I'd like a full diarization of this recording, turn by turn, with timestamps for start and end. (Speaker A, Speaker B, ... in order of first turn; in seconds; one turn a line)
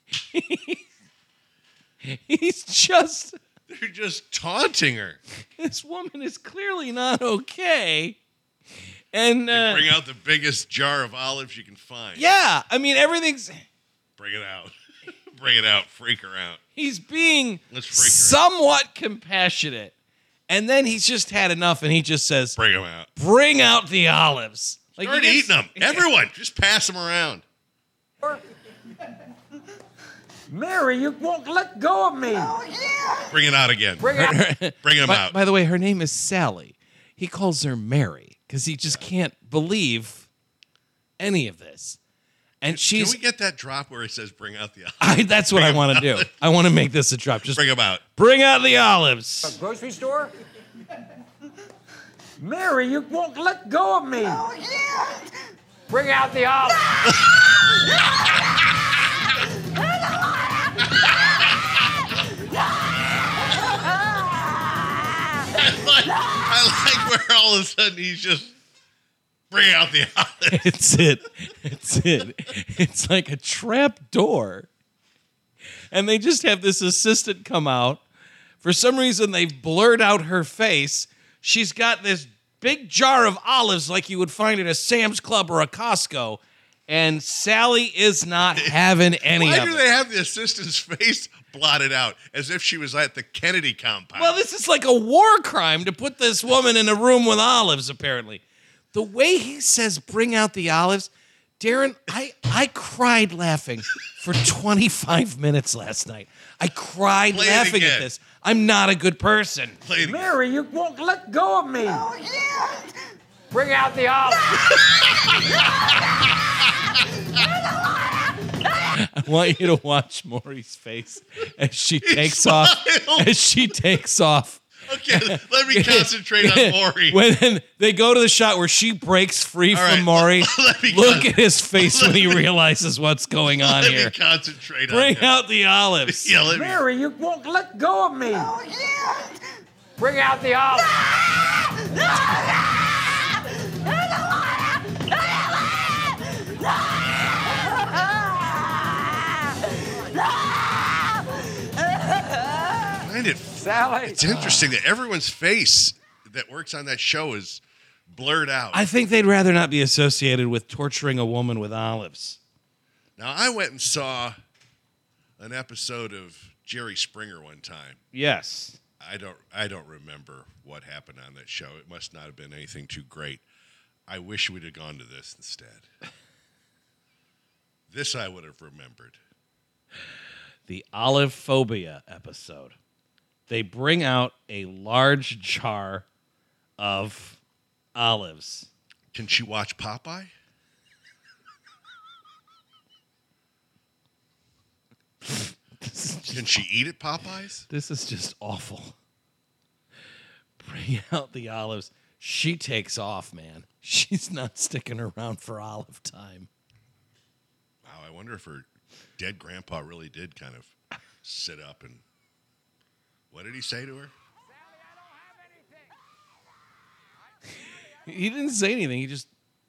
Speaker A: 0.3-0.8
Speaker A: 2.0-3.4
Speaker B: 3.7-5.2
Speaker A: 5.6-8.2
Speaker A: 9.1-9.9
Speaker B: 9.5-12.3
Speaker A: 12.2-13.7
Speaker B: 14.2-16.6
Speaker A: 16.8-19.9
Speaker B: 17.7-18.4
Speaker A: 20.5-22.6
Speaker B: 22.6-23.1
Speaker A: 23.2-26.1
Speaker B: 25.0-27.4
Speaker C: 30.5-32.6
Speaker B: 33.3-35.4
Speaker C: 34.0-34.4
Speaker A: 34.0-40.3
Speaker A: 41.2-42.0
Speaker A: 42.6-43.2
Speaker B: 42.7-46.3
Speaker A: 45.0-47.6
Speaker B: 47.5-48.0
Speaker A: 48.1-49.5
Speaker C: 49.4-50.3
Speaker C: 52.4-54.5
Speaker C: 55.9-57.0
Speaker B: 57.1-57.4
Speaker B: 65.5-68.5
Speaker B: 69.5-70.7
Speaker A: 70.5-74.7
Speaker A: 75.9-78.0
Speaker A: 78.6-89.8
Speaker B: 88.5-94.4
Speaker A: 94.2-98.4
Speaker A: 98.9-101.1
Speaker A: 101.6-109.8
Speaker B: 107.3-108.1
Speaker B: 109.8-110.3
Speaker C: 110.0-112.1
Speaker C: 113.5-114.6
Speaker B: 115.0-115.6
Speaker A: 118.9-134.1
Speaker B: 122.0-123.3
Speaker B: 124.9-127.2
Speaker B: 129.7-132.4
Speaker B: 133.6-135.3
Speaker A: 134.9-136.3
Speaker B: 136.1-136.8
Speaker C: 136.5-138.6
Speaker C: 140.0-141.1
Speaker B: 152.9-158.9
Speaker C: 153.6-154.2
Speaker A: 154.2-154.7
Speaker A: 158.7-162.4
Speaker B: 163.2-164.4
Speaker B: 165.4-168.0
Speaker A: 168.1-168.8
Speaker B: 169.0-173.4
Speaker B: 174.1-175.9
Speaker B: 177.9-179.2
Speaker A: 180.7-182.8
Speaker A: 183.5-186.1
Speaker A: 186.8-187.4
Speaker A: 187.9-188.7
Speaker B: 189.1-190.3
Speaker A: 195.2-196.6
Speaker B: 196.3-197.7
Speaker A: 197.7-199.0
Speaker A: 200.6-206.5
Speaker B: 207.8-208.7
Speaker B: 209.2-212.0
Speaker B: 213.3-214.1
Speaker A: 218.0-219.3